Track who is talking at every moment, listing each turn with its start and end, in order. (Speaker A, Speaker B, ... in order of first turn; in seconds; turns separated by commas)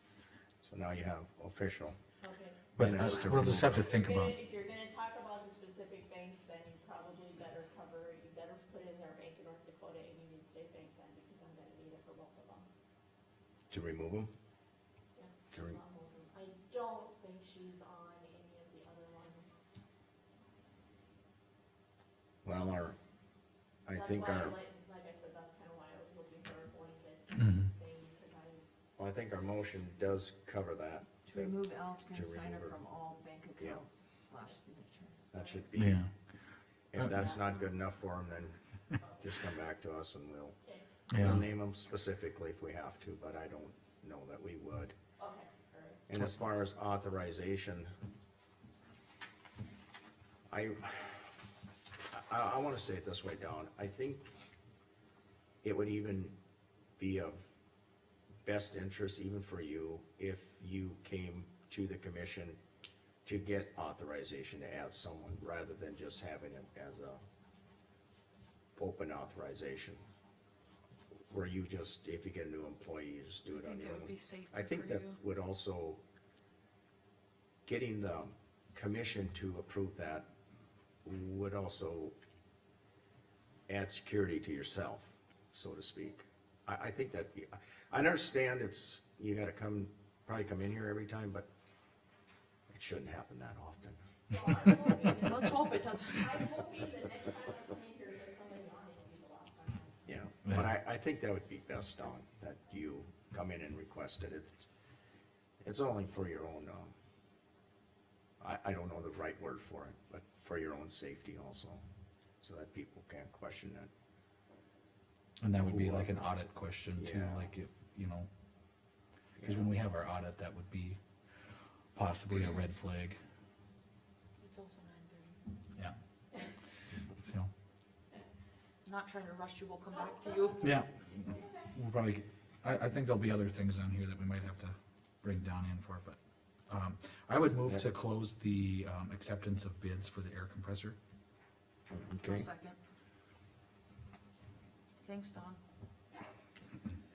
Speaker A: 0.6-2.0, Speaker B: 2.2-12.7, Speaker A: 2.8-4.0, Speaker C: 2.8-4.3, Speaker A: 13.7-14.3, Speaker B: 15.1-19.6, Speaker A: 15.5-15.8, Speaker A: 22.4-23.0, Speaker A: 23.9-24.6, Speaker B: 23.9-28.6, Speaker C: 27.4-27.7, Speaker A: 29.0-31.6, Speaker D: 31.3-35.3, Speaker A: 32.1-32.8, Speaker A: 33.6-33.8, Speaker A: 35.3-36.0, Speaker B: 35.3-35.7, Speaker C: 35.8-36.1, Speaker A: 36.9-38.6, Speaker C: 37.0-37.3, Speaker A: 39.2-40.5, Speaker B: 40.6-40.9, Speaker C: 41.1-41.5, Speaker A: 41.1-44.9, Speaker B: 45.2-46.0, Speaker A: 46.1-47.9, Speaker A: 50.5-51.3, Speaker A: 52.1-54.3, Speaker A: 55.6-56.3, Speaker A: 57.0-57.4, Speaker A: 58.4-62.6, Speaker A: 63.2-67.2, Speaker A: 68.8-70.0, Speaker A: 71.3-76.0, Speaker D: 73.5-75.2, Speaker A: 77.7-80.3, Speaker A: 81.0-82.1, Speaker A: 83.7-91.5, Speaker A: 92.7-94.0, Speaker B: 94.3-100.1, Speaker D: 95.2-96.4, Speaker A: 100.0-104.7, Speaker A: 105.6-106.9, Speaker A: 108.4-111.8, Speaker A: 112.4-113.9, Speaker C: 115.4-118.3, Speaker A: 115.5-117.5, Speaker A: 119.4-119.7, Speaker C: 119.4-121.0, Speaker C: 121.9-123.2, Speaker D: 124.4-125.4, Speaker C: 127.2-127.5, Speaker D: 128.8-130.7, Speaker B: 129.9-131.7, Speaker C: 130.6-136.2, Speaker C: 136.7-140.9, Speaker A: 141.9-142.5, Speaker D: 142.2-142.8, Speaker D: 145.0-145.6